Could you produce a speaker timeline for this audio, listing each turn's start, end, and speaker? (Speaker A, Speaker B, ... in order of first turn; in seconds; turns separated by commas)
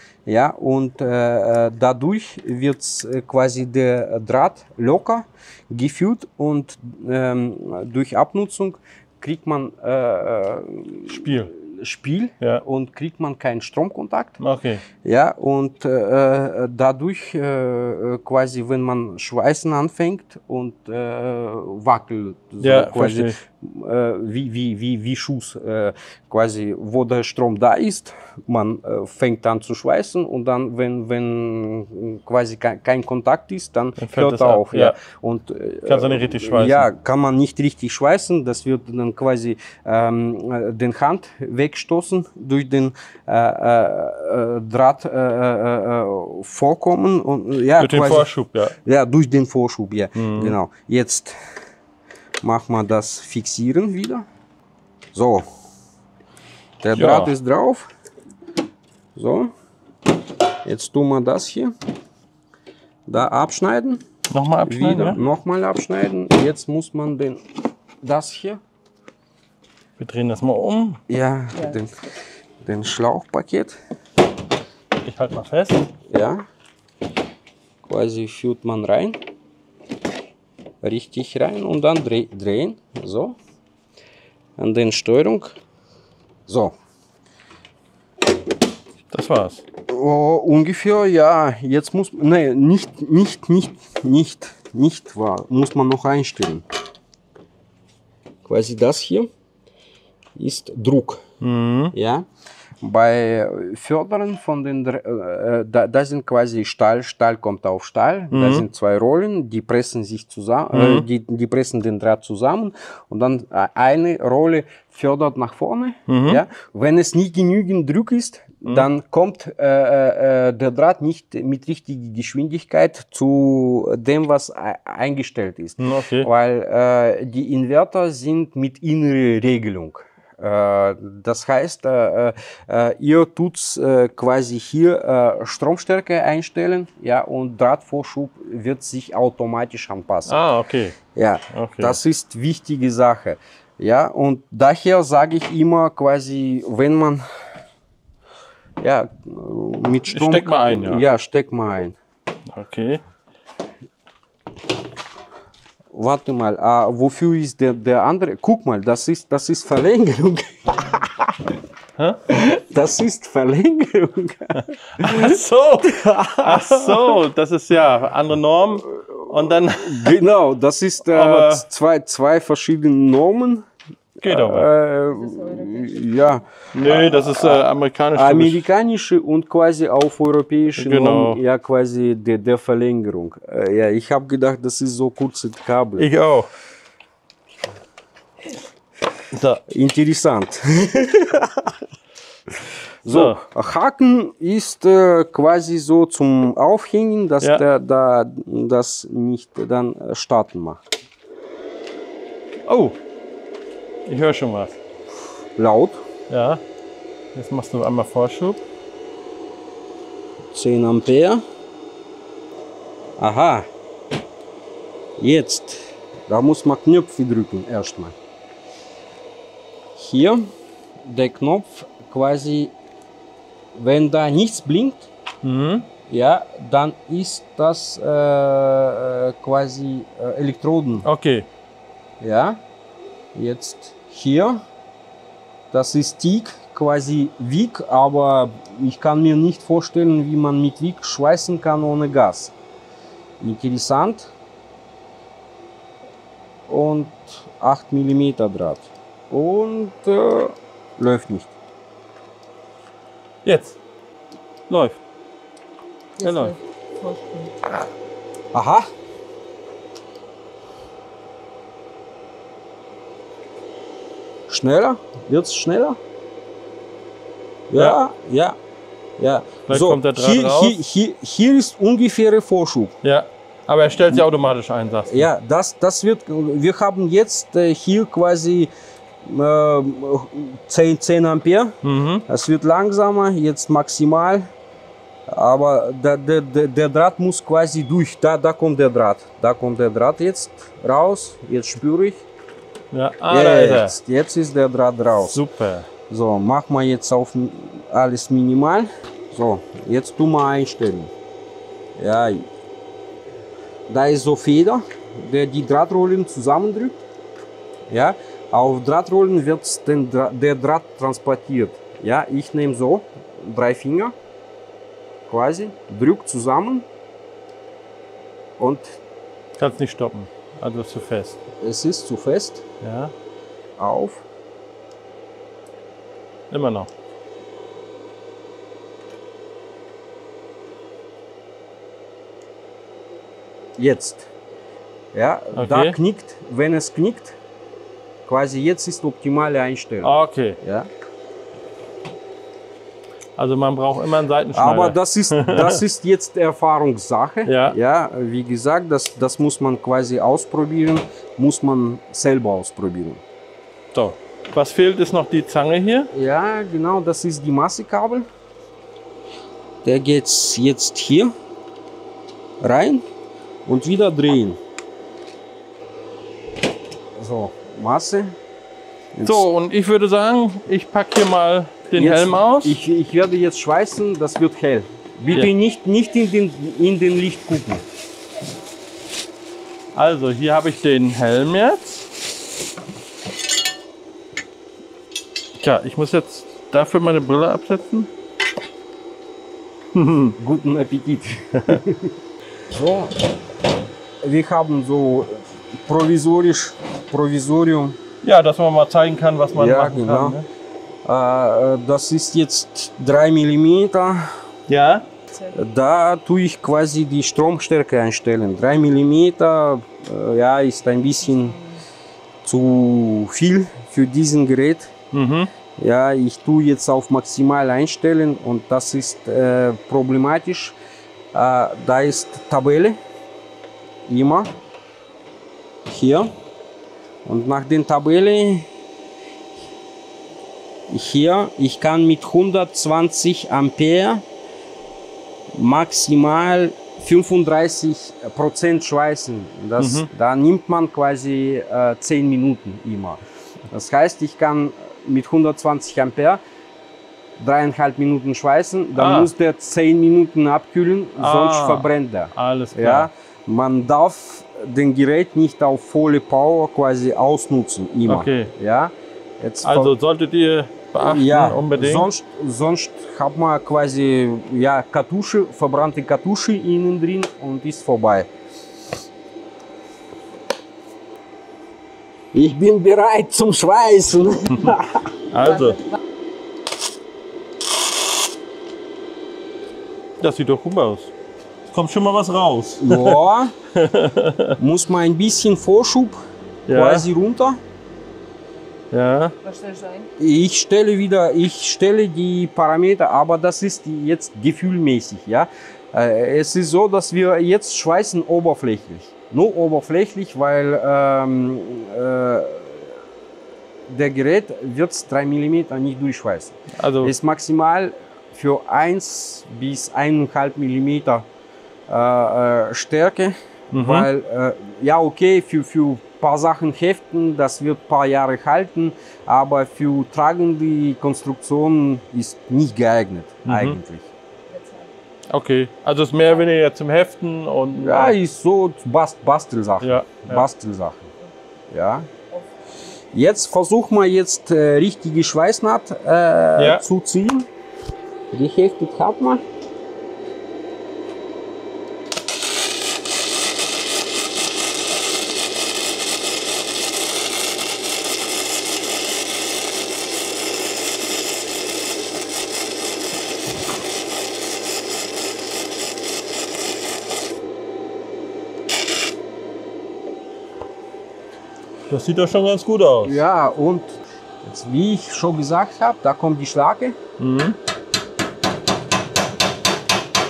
Speaker A: 0.3-14.4, Speaker B: 11.1-11.5, Speaker B: 14.4-14.8, Speaker A: 15.0-51.4, Speaker B: 22.6-23.4, Speaker B: 34.0-35.0, Speaker B: 35.9-36.9, Speaker B: 47.8-48.8, Speaker B: 50.1-50.6, Speaker A: 52.4-54.3, Speaker A: 55.1-55.5, Speaker A: 56.8-57.9, Speaker B: 56.9-57.3, Speaker A: 59.2-59.5, Speaker A: 60.6-61.7, Speaker A: 63.1-64.0, Speaker B: 64.3-65.2, Speaker A: 64.7-67.4, Speaker A: 68.0-68.6, Speaker B: 70.0-71.0, Speaker A: 71.1-71.9, Speaker A: 72.6-73.8, Speaker B: 75.0-75.9, Speaker A: 76.1-76.5, Speaker A: 77.8-79.2, Speaker A: 80.8-83.4, Speaker A: 84.6-85.6, Speaker A: 86.5-86.8, Speaker B: 89.1-89.7, Speaker A: 89.9-96.7, Speaker A: 98.5-99.3, Speaker A: 100.4-101.2, Speaker B: 101.4-102.0, Speaker A: 101.9-102.3, Speaker A: 102.8-140.4, Speaker B: 108.3-108.7, Speaker B: 110.7-111.1, Speaker B: 116.1-116.4, Speaker B: 125.8-126.3, Speaker B: 140.3-141.0, Speaker A: 141.2-147.2, Speaker B: 141.5-142.0, Speaker A: 148.8-152.0, Speaker B: 150.1-151.0, Speaker B: 152.5-153.0, Speaker A: 155.9-161.5, Speaker A: 162.3-167.2, Speaker B: 164.6-170.2, Speaker A: 168.9-173.7, Speaker B: 171.1-171.7, Speaker B: 174.2-174.7, Speaker A: 174.3-186.1, Speaker C: 175.3-175.9, Speaker B: 176.7-178.7, Speaker B: 180.8-181.4, Speaker B: 186.0-186.5, Speaker B: 189.3-189.6, Speaker A: 189.7-191.8, Speaker A: 192.5-200.8, Speaker B: 193.1-193.4, Speaker B: 202.7-203.0, Speaker B: 204.1-204.8, Speaker A: 205.6-206.0, Speaker B: 206.3-206.6, Speaker B: 207.3-208.6, Speaker A: 210.5-211.4, Speaker A: 213.2-213.7, Speaker A: 215.2-218.2, Speaker A: 220.0-220.5, Speaker A: 221.0-222.7, Speaker A: 223.8-225.1, Speaker B: 225.4-225.9, Speaker A: 226.1-231.1, Speaker B: 231.0-231.5, Speaker A: 232.2-232.6, Speaker A: 233.3-234.6, Speaker A: 235.7-242.5, Speaker A: 243.4-244.3, Speaker A: 246.7-251.6, Speaker B: 253.4-253.8, Speaker B: 254.7-255.0, Speaker C: 256.2-257.5, Speaker B: 256.2-256.6, Speaker A: 258.5-258.9, Speaker A: 264.5-266.0, Speaker A: 267.7-268.6, Speaker A: 269.2-273.0, Speaker B: 269.7-270.8, Speaker B: 273.0-275.3, Speaker A: 275.1-278.7, Speaker A: 279.2-281.8, Speaker B: 281.8-282.3, Speaker A: 282.3-284.5, Speaker A: 285.3-292.2, Speaker B: 292.9-294.0, Speaker A: 293.3-295.4, Speaker B: 295.1-295.9, Speaker A: 296.1-301.1, Speaker A: 302.0-302.5, Speaker A: 303.9-307.0, Speaker A: 307.9-314.1, Speaker A: 315.3-316.9, Speaker A: 318.6-319.0, Speaker B: 319.6-321.4, Speaker A: 321.6-322.6, Speaker B: 322.8-323.1, Speaker A: 323.8-324.3, Speaker B: 326.5-326.9, Speaker A: 333.8-334.3, Speaker A: 335.1-337.4, Speaker B: 335.6-336.0, Speaker A: 338.3-340.9, Speaker B: 340.0-340.6, Speaker B: 343.4-345.8, Speaker A: 344.6-353.2, Speaker B: 347.5-347.8, Speaker B: 353.9-356.1, Speaker A: 356.1-358.3, Speaker A: 359.8-361.3, Speaker A: 362.6-363.1, Speaker A: 363.7-364.6, Speaker A: 367.2-368.4, Speaker A: 369.1-369.5, Speaker B: 369.2-372.8, Speaker A: 371.9-377.9, Speaker B: 379.9-382.1, Speaker B: 385.6-388.1, Speaker B: 389.9-390.4, Speaker A: 390.4-392.1, Speaker A: 392.7-393.2, Speaker A: 394.2-398.0, Speaker B: 398.2-400.5, Speaker A: 399.5-400.4, Speaker A: 401.1-404.4, Speaker B: 404.7-405.1, Speaker A: 405.5-411.6, Speaker C: 411.5-411.8, Speaker A: 412.4-414.9, Speaker B: 415.1-415.5, Speaker A: 415.8-420.8, Speaker A: 421.3-423.0, Speaker A: 424.1-424.5, Speaker A: 425.9-426.3, Speaker A: 427.2-428.7, Speaker A: 430.9-434.2, Speaker A: 435.5-446.4, Speaker B: 439.8-440.1, Speaker A: 447.4-459.9, Speaker B: 449.0-449.3, Speaker B: 451.2-453.1, Speaker B: 458.1-458.5, Speaker B: 459.6-462.1, Speaker A: 461.0-468.3, Speaker A: 472.3-475.1, Speaker B: 475.3-475.8, Speaker C: 475.5-475.9, Speaker B: 480.2-481.1, Speaker B: 481.7-483.2, Speaker A: 482.8-483.5, Speaker B: 483.7-484.6, Speaker A: 484.6-487.6, Speaker B: 486.7-487.1, Speaker B: 488.9-489.4, Speaker C: 489.4-490.1, Speaker A: 490.2-503.0, Speaker A: 503.9-511.3, Speaker B: 506.7-507.1, Speaker A: 511.9-524.1, Speaker B: 513.7-514.1, Speaker B: 523.5-523.8, Speaker C: 524.5-524.9, Speaker B: 525.3-528.2, Speaker A: 527.8-531.1, Speaker B: 529.8-530.5, Speaker A: 531.7-532.1, Speaker A: 533.1-537.5, Speaker B: 536.6-536.9, Speaker A: 538.3-539.5, Speaker B: 561.9-563.2, Speaker A: 563.0-567.0, Speaker B: 567.2-567.6